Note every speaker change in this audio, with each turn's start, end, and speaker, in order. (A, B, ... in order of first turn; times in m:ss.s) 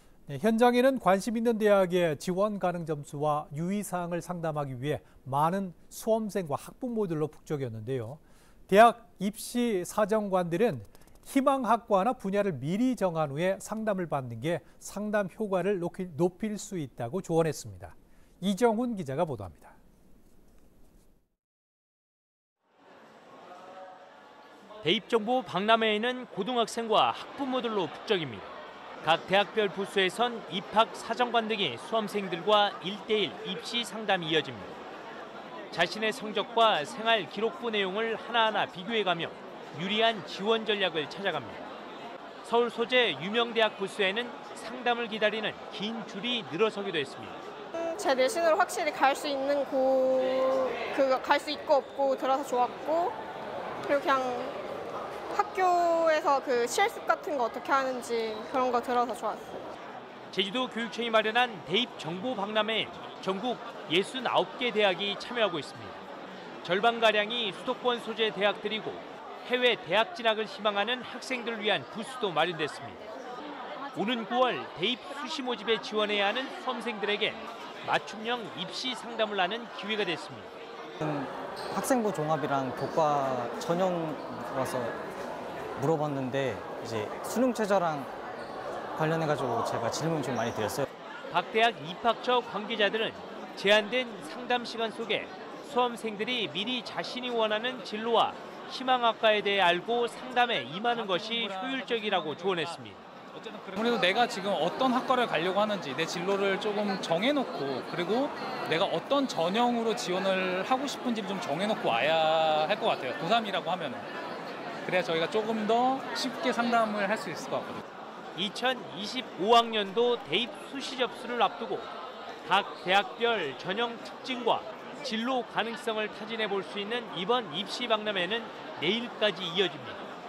0:00.3-0:19.8 A
0:24.8-0:28.5 B
0:29.0-0:34.8 B
0:35.7-0:41.7 B
0:42.4-0:47.4 B
0:47.7-0:53.1 C
0:53.8-0:54.6 C
0:55.3-0:59.4 C
1:00.3-1:06.0 B
1:06.6-1:13.0 B
1:13.9-1:20.5 B
1:21.0-1:25.0 D
1:25.8-1:28.1 D
1:28.9-1:30.8 D
1:31.3-1:43.0 B
1:40.9-1:54.1 E
1:54.8-1:57.8 E
1:58.3-2:01.9 B
2:02.4-2:10.0 B